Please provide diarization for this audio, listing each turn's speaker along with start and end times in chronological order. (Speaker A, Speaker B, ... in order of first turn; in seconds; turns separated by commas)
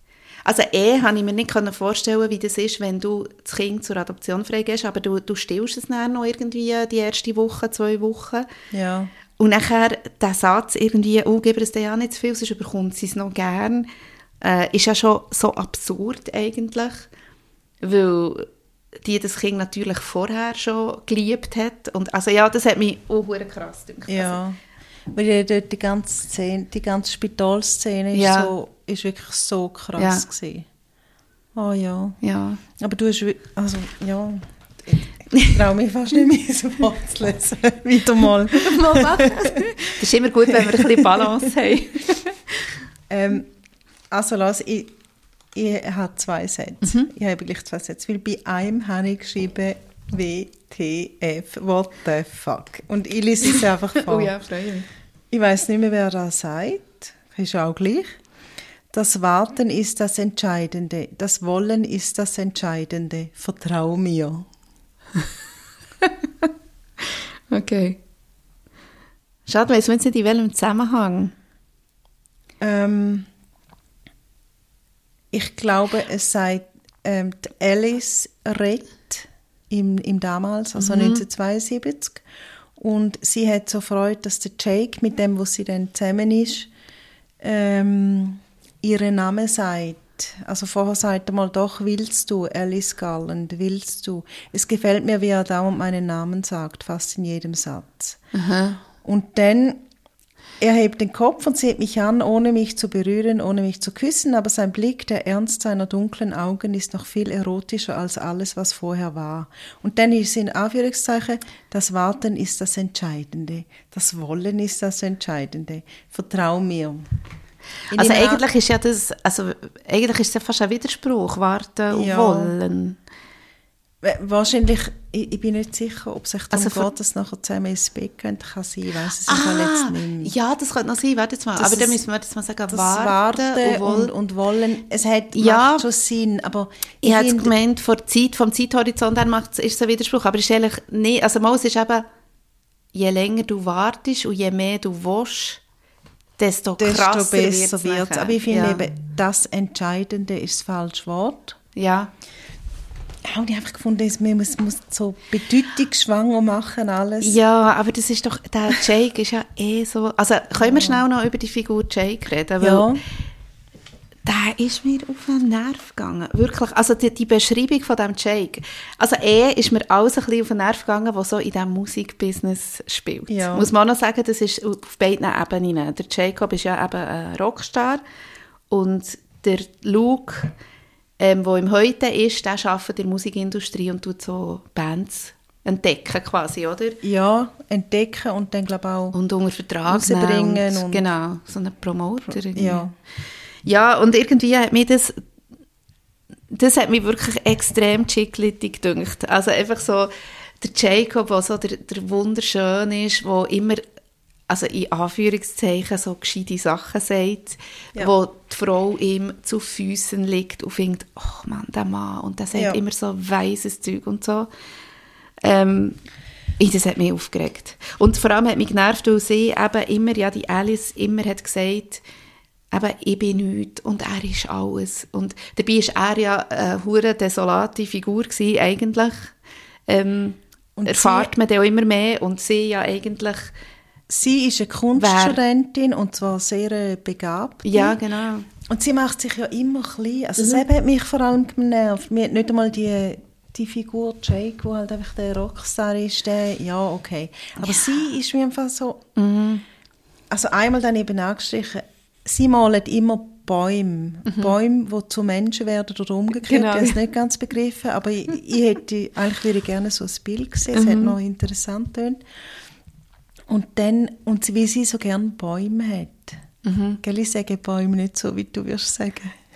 Speaker A: 0.4-8.5, Speaker B: 8.7-9.1, Speaker A: 9.4-13.9, Speaker A: 14.4-17.1, Speaker A: 17.8-18.5, Speaker A: 19.0-24.4, Speaker B: 24.1-24.6, Speaker B: 25.1-30.7, Speaker A: 28.1-28.5, Speaker A: 30.0-30.2, Speaker B: 31.6-32.2, Speaker A: 32.2-32.6, Speaker B: 32.8-39.7, Speaker A: 38.5-42.4, Speaker B: 40.5-41.3, Speaker B: 43.1-43.5, Speaker B: 44.1-44.9, Speaker B: 45.5-54.3, Speaker A: 53.5-54.9, Speaker B: 55.3-58.2, Speaker B: 58.9-64.5, Speaker A: 66.0-66.5, Speaker A: 67.5-68.0, Speaker A: 69.5-71.3, Speaker B: 72.6-73.3, Speaker B: 75.3-82.2, Speaker A: 80.8-81.2, Speaker B: 82.8-86.7, Speaker B: 87.4-98.2, Speaker A: 98.3-98.8, Speaker B: 99.0-99.8, Speaker B: 100.6-117.0, Speaker B: 117.9-118.4, Speaker A: 117.9-123.0, Speaker B: 121.9-122.5, Speaker B: 124.0-130.3, Speaker A: 126.5-126.9, Speaker A: 129.3-134.1, Speaker B: 131.6-132.0, Speaker B: 132.7-137.5, Speaker A: 135.4-135.8, Speaker A: 137.0-142.1, Speaker A: 142.9-145.6, Speaker A: 146.4-148.8, Speaker B: 146.8-151.6, Speaker A: 151.8-152.1, Speaker B: 153.2-157.4, Speaker A: 157.2-162.9, Speaker B: 160.6-161.0, Speaker B: 162.6-163.0, Speaker A: 164.2-178.0, Speaker B: 173.3-173.7, Speaker A: 178.7-180.5, Speaker A: 181.2-187.0, Speaker B: 187.0-189.1, Speaker A: 189.1-192.8, Speaker B: 189.9-191.0, Speaker B: 192.5-192.9, Speaker A: 193.6-195.2, Speaker A: 196.5-203.8, Speaker A: 204.5-214.5, Speaker B: 212.5-212.8, Speaker A: 215.4-216.0, Speaker A: 216.6-222.0, Speaker A: 222.7-229.3, Speaker A: 229.9-233.5, Speaker B: 230.8-231.3, Speaker B: 234.1-238.0, Speaker A: 235.0-235.4, Speaker A: 237.7-238.5, Speaker B: 238.7-249.0, Speaker A: 247.6-248.1, Speaker A: 249.2-249.6, Speaker B: 250.3-262.2, Speaker A: 254.3-254.5, Speaker A: 256.4-257.0, Speaker A: 260.7-261.2, Speaker B: 263.5-266.4, Speaker A: 266.6-267.0, Speaker B: 267.0-269.4